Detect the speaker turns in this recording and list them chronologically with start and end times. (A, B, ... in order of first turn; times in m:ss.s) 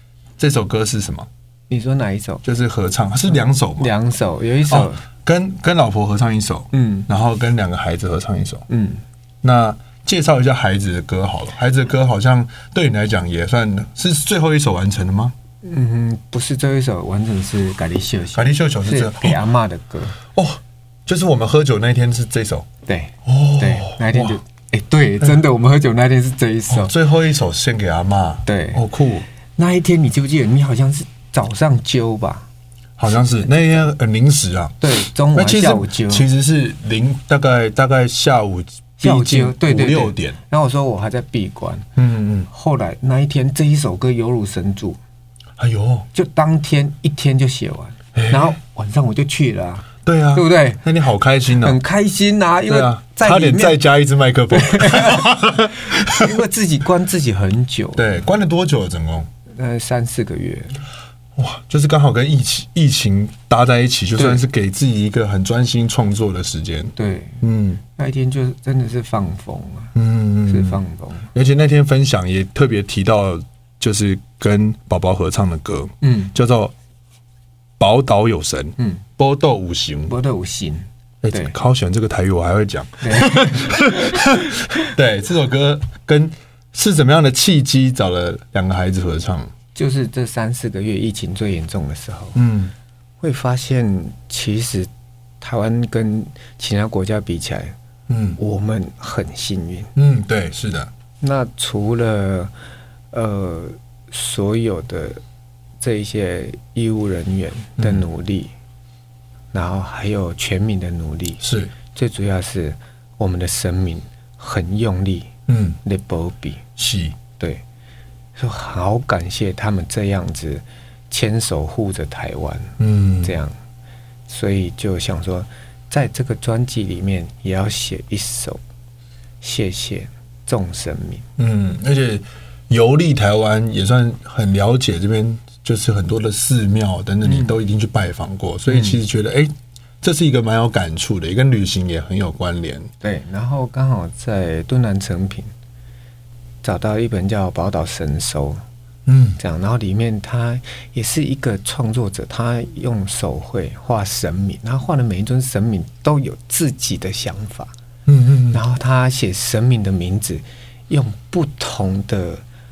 0:00.4-0:01.3 A
0:01.7-0:02.4 B
0:02.4-0:03.9 A
0:03.8-0:05.0 B
0:04.7-0:08.7 A
0:06.7-0:07.1 B
0:08.7-0:09.0 B
0:09.4-0:15.4 A
0:15.6-0:20.2 B
0:18.4-0:19.4 A
0:20.3-0:22.7 A
0:22.9-0:26.9 B
0:23.2-0:24.4 A
0:26.7-0:29.3 A
0:28.5-0:28.8 B
0:29.6-0:32.5 B
0:33.0-0:34.8 A
0:34.8-0:36.3 B
0:35.4-0:40.4 A
0:39.0-0:41.9 B
0:42.0-0:42.5 A
0:42.5-0:45.0 B
0:45.6-0:46.1 A
0:46.1-0:50.8 B
0:48.2-0:48.6 A
0:50.0-0:51.8 A
0:51.5-0:53.8 B
0:52.7-0:56.4 A
0:54.5-0:58.0 B
0:58.0-0:59.3 A
0:59.5-1:00.8 B
1:01.4-1:07.8 A
1:07.0-1:09.9 B
1:10.0-1:10.8 A
1:10.5-1:11.3 B
1:11.3-1:16.7 A
1:16.0-1:16.3 B
1:17.8-1:20.2 A
1:18.8-1:19.0 B
1:20.1-1:21.5 B
1:21.2-1:29.5 A
1:23.0-1:24.6 B
1:29.8-1:32.4 B
1:32.4-1:32.7 A
1:33.2-1:34.9 B
1:35.4-1:37.8 B
1:38.1-1:38.4 A
1:38.4-1:39.9 B
1:40.0-1:40.9 A
1:41.2-1:42.5 B
1:43.1-1:45.2 B
1:45.8-1:48.5 B
1:47.8-1:48.0 A
1:49.5-1:55.3 B
1:51.4-1:51.7 A
1:55.5-1:55.8 A
1:55.8-1:56.6 B
1:56.8-1:57.2 A
1:57.4-1:57.6 B
1:58.4-2:03.6 B
2:02.8-2:03.4 A
2:04.3-2:08.6 B
2:09.4-2:11.3 B
2:11.4-2:22.9 A
2:17.2-2:17.5 B
2:18.7-2:19.0 B
2:23.0-2:25.5 B
2:26.6-2:28.6 B
2:29.1-2:29.4 A
2:29.4-2:37.7 B
2:38.1-2:38.6 A
2:38.5-2:42.4 B